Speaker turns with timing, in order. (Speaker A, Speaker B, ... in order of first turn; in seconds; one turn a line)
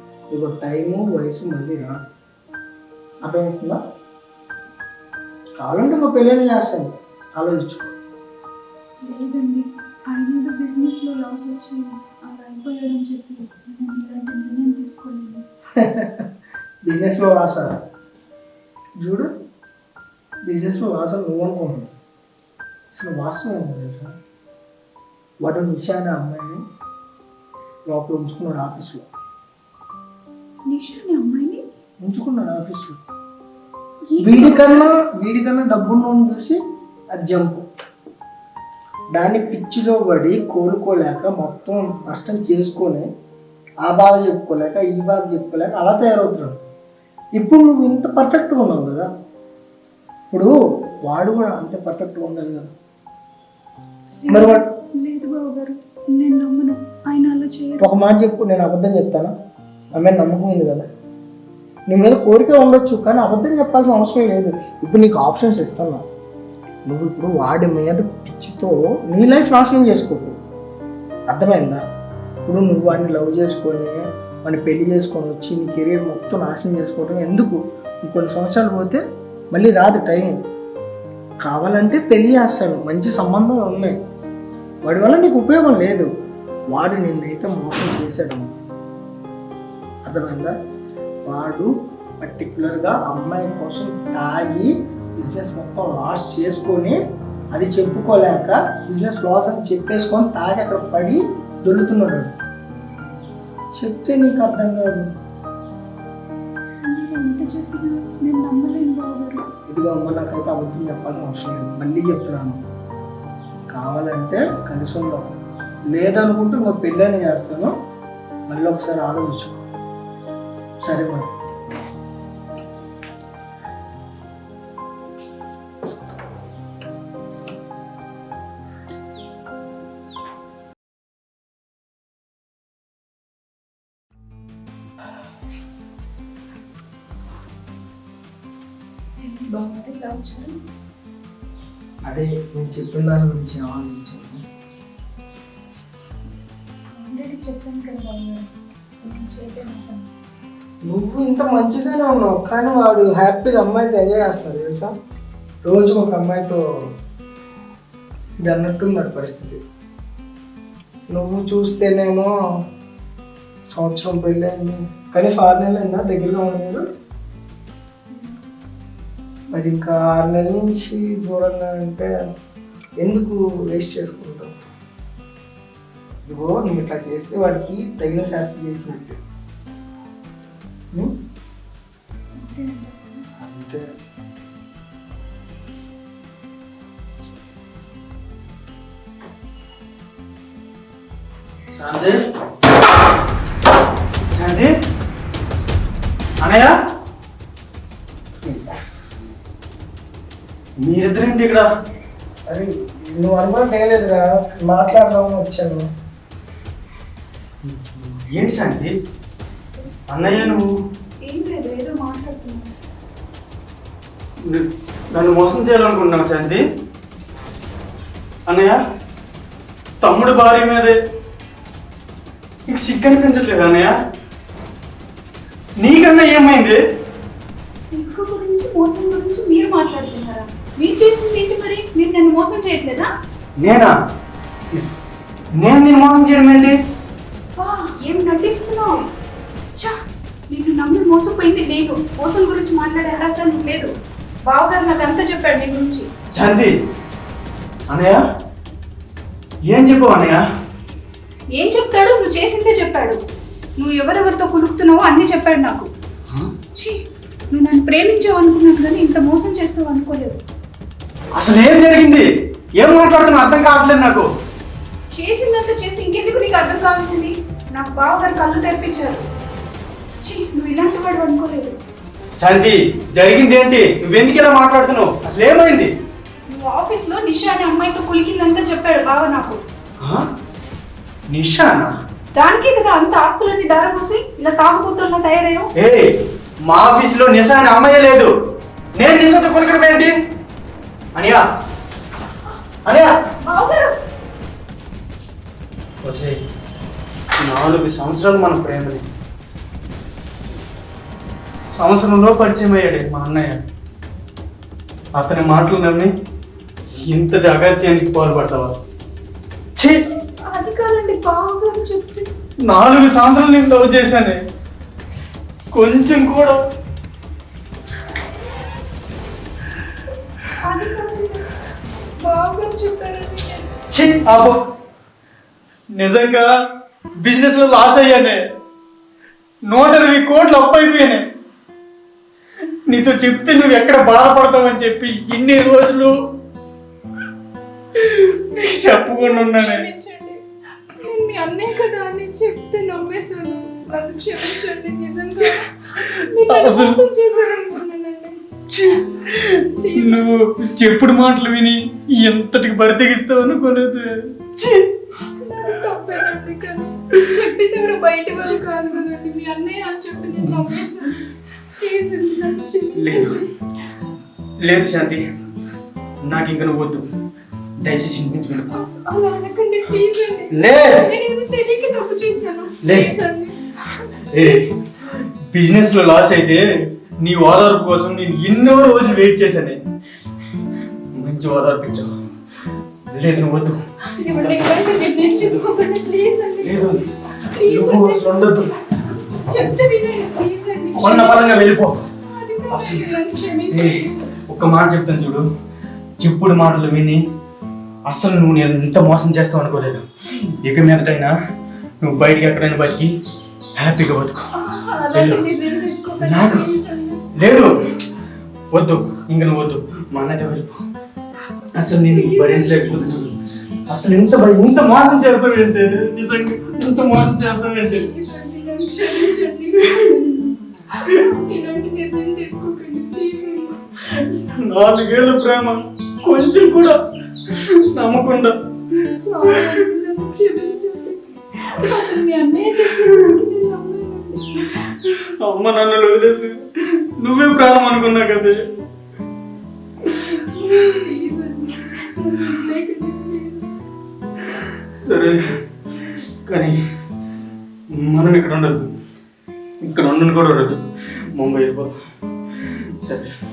Speaker A: 0.3-2.0
Speaker A: 3.2-3.8
Speaker A: 5.6-8.0
Speaker B: 9.0-15.4
Speaker A: 15.8-16.3
Speaker A: 16.9-17.8
Speaker A: 19.0-19.3
Speaker A: 20.5-21.9
Speaker A: 22.9-24.1
Speaker A: 25.4-26.6
Speaker A: 27.9-29.1
Speaker B: 30.7-31.6
Speaker A: 32.0-33.0
Speaker B: 34.1-34.9
Speaker A: 34.2-36.6
Speaker A: 37.1-37.6
Speaker A: 39.1-43.1
Speaker A: 43.8-46.6
Speaker A: 47.4-49.1
Speaker A: 51.0-52.7
Speaker B: 54.2-58.0
Speaker A: 54.3-54.6
Speaker A: 57.8-59.3
Speaker A: 60.0-60.9
Speaker A: 61.9-66.1
Speaker A: 66.9-70.4
Speaker A: 71.3-71.8
Speaker A: 72.5-79.0
Speaker A: 79.5-80.4
Speaker A: 81.4-84.0
Speaker A: 84.8-86.1
Speaker A: 86.7-88.6
Speaker A: 90.0-90.5
Speaker A: 91.3-97.0
Speaker A: 97.5-102.4
Speaker A: 103.7-105.1
Speaker B: 106.9-109.4
Speaker A: 109.7-112.6
Speaker A: 113.7-115.4
Speaker A: 115.9-117.7
Speaker A: 118.5-119.6
Speaker A: 120.8-121.4
Speaker B: 139.2-140.6
Speaker A: 142.1-144.4
Speaker B: 146.9-148.5
Speaker B: 149.0-150.1
Speaker A: 150.8-154.9
Speaker A: 155.7-156.9
Speaker A: 158.4-159.6
Speaker A: 161.1-162.3
Speaker A: 163.7-166.8
Speaker A: 169.5-172.1
Speaker A: 173.0-174.5
Speaker A: 176.3-179.2
Speaker B: 182.4-183.3
Speaker A: 183.4-183.8
Speaker C: 191.8-192.2
Speaker C: 194.3-194.7
Speaker C: 196.4-196.7
Speaker C: 200.8-201.7
Speaker A: 202.5-205.9
Speaker C: 207.7-208.9
Speaker C: 210.1-210.7
Speaker B: 210.2-210.6
Speaker B: 211.3-212.7
Speaker C: 214.5-216.6
Speaker C: 218.5-218.8
Speaker C: 220.0-220.9
Speaker C: 222.7-223.9
Speaker C: 225.8-226.8
Speaker B: 227.8-233.1
Speaker C: 233.6-233.9
Speaker C: 235.6-236.8
Speaker B: 237.6-239.1
Speaker B: 240.5-243.9
Speaker B: 244.5-246.1
Speaker C: 246.3-246.7
Speaker C: 247.9-248.2
Speaker C: 249.7-250.4
Speaker B: 251.6-253.2
Speaker B: 253.8-255.9
Speaker B: 257.5-260.4
Speaker C: 261.4-262.3
Speaker C: 262.8-264.3
Speaker B: 265.1-269.2
Speaker B: 270.2-271.8
Speaker C: 272.4-275.9
Speaker B: 276.5-279.6
Speaker C: 280.0-280.3
Speaker C: 281.3-281.9
Speaker B: 282.4-285.7
Speaker C: 285.8-286.1
Speaker C: 286.7-288.3
Speaker C: 289.0-290.1
Speaker C: 291.2-291.4
Speaker C: 292.9-293.1
Speaker B: 293.5-293.9
Speaker C: 296.0-296.4
Speaker C: 297.4-299.0
Speaker C: 301.7-303.6
Speaker C: 305.2-306.1
Speaker C: 306.9-308.8
Speaker B: 310.5-312.3
Speaker C: 312.7-314.4
Speaker C: 315.7-316.6
Speaker B: 320.6-321.5
Speaker B: 322.2-323.7
Speaker C: 323.9-324.6
Speaker C: 326.0-326.5
Speaker C: 327.2-328.4
Speaker C: 329.7-331.3
Speaker C: 332.9-336.1
Speaker C: 337.9-339.9
Speaker B: 338.6-340.4
Speaker B: 340.9-348.5
Speaker C: 345.5-347.0
Speaker C: 348.7-354.9
Speaker B: 349.8-350.4
Speaker B: 355.3-361.2
Speaker B: 361.8-363.5
Speaker C: 362.9-363.4
Speaker C: 364.6-365.2
Speaker C: 366.2-367.1
Speaker C: 367.8-368.7
Speaker B: 368.7-373.7
Speaker C: 370.5-371.1
Speaker C: 372.8-373.1
Speaker C: 374.3-379.8
Speaker C: 381.1-382.1
Speaker C: 383.1-385.7
Speaker B: 384.2-388.3
Speaker C: 386.6-387.0
Speaker C: 387.6-388.7
Speaker B: 389.4-391.7
Speaker C: 391.0-392.0
Speaker B: 392.3-394.3
Speaker C: 392.7-393.2
Speaker C: 393.7-395.5
Speaker C: 396.2-397.2
Speaker C: 398.1-400.1
Speaker C: 400.6-401.3
Speaker C: 402.0-403.1
Speaker C: 403.8-404.5
Speaker B: 404.6-407.4
Speaker C: 405.1-405.5
Speaker C: 406.2-406.6
Speaker C: 407.4-407.7
Speaker C: 408.7-410.8
Speaker C: 411.8-413.3
Speaker B: 412.1-413.1
Speaker C: 413.9-418.1
Speaker B: 417.5-424.2
Speaker C: 419.1-420.1
Speaker C: 424.6-427.0
Speaker C: 427.5-428.6
Speaker B: 429.2-434.7
Speaker C: 435.0-436.7
Speaker C: 437.2-438.6
Speaker B: 440.0-443.7
Speaker C: 445.0-445.4
Speaker C: 446.1-446.8
Speaker C: 447.9-448.9
Speaker C: 449.8-450.8
Speaker C: 451.4-452.0
Speaker C: 452.5-453.3